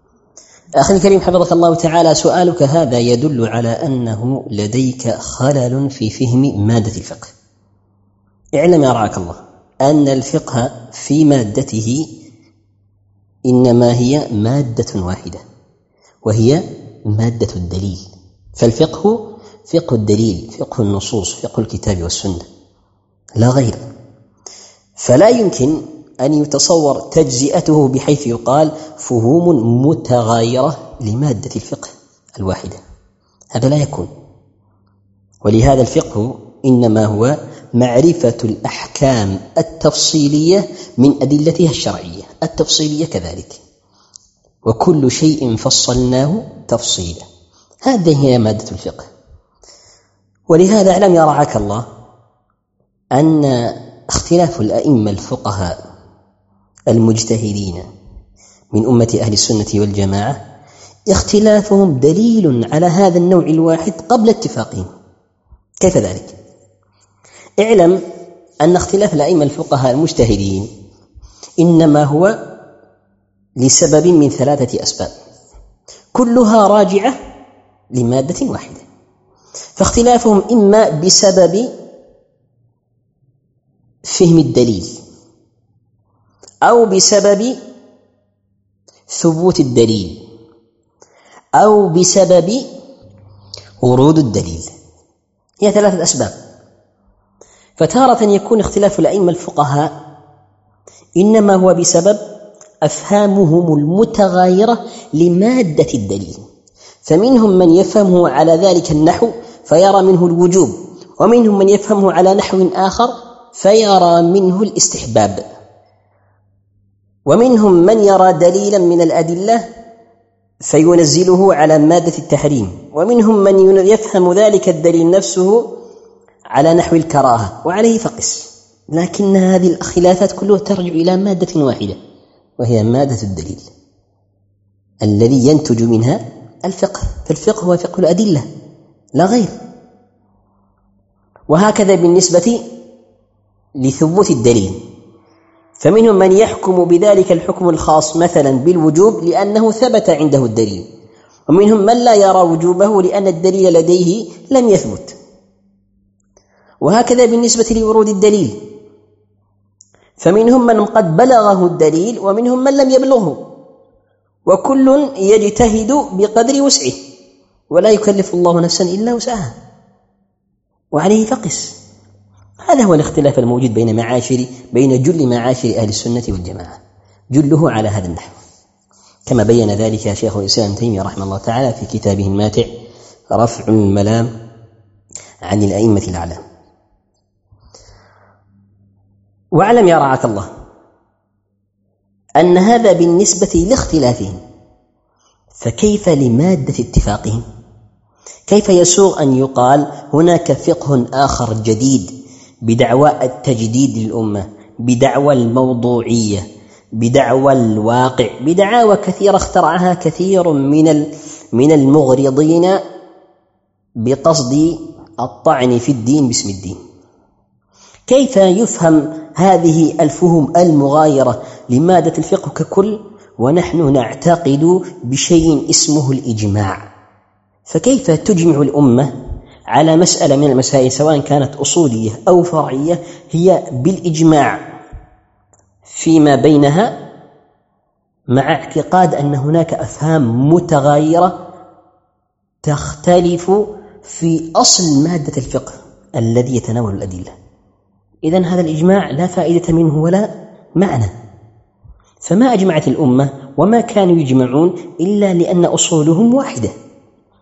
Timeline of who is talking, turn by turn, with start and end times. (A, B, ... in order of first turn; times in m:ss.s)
0:00.8-0:07.3 A
0:08.6-0:12.1 A
0:13.5-0:15.4 A
0:16.2-0:22.4 A
0:23.4-0:23.8 A
0:25.0-0:32.8 A
0:33.5-0:34.1 A
0:35.4-0:43.6 A
0:44.6-0:47.2 A
0:47.8-0:49.1 A
0:50.5-0:51.8 A
0:53.1-0:55.7 A
0:56.9-0:57.9 A
0:58.7-1:00.4 A
1:01.1-1:04.9 A
1:05.8-1:06.4 A
1:07.6-1:08.0 A
1:08.6-1:10.7 A
1:11.6-1:12.3 A
1:13.6-1:15.1 A
1:16.1-1:17.2 A
1:17.9-1:18.8 A
1:19.8-1:21.7 A
1:24.0-1:24.9 A
1:26.6-1:27.6 A
1:29.1-1:30.2 A
1:31.6-1:32.7 A
1:33.8-1:34.7 A
1:35.6-1:36.3 A
1:37.8-1:39.9 A
1:41.2-1:42.2 A
1:42.8-1:46.4 A
1:47.0-1:55.4 A
1:57.2-1:59.7 A
2:00.6-2:05.7 A
2:06.5-2:12.0 A
2:12.6-2:13.7 A
2:15.0-2:18.5 A
2:19.2-2:19.6 A
2:21.5-2:22.6 A
2:23.8-2:24.8 A
2:25.8-2:30.8 A
2:31.5-2:35.2 A
2:36.8-2:38.6 A
2:40.2-2:43.4 A
2:44.4-2:47.0 A
2:47.7-2:49.6 A
2:50.9-2:51.7 A
2:52.6-2:56.8 A
2:57.3-2:58.4 A
2:59.3-3:02.7 A
3:03.3-3:04.3 A
3:05.4-3:06.4 A
3:09.5-3:10.5 A
3:12.4-3:14.4 A
3:15.6-3:17.4 A
3:18.5-3:22.1 A
3:22.6-3:26.4 A
3:27.0-3:32.8 A
3:34.0-3:36.8 A
3:38.1-3:46.8 A
3:47.7-3:49.1 A
3:49.7-3:54.6 A
3:55.8-3:56.9 A
3:58.3-4:01.3 A
4:02.6-4:07.3 A
4:08.2-4:11.1 A
4:12.2-4:16.7 A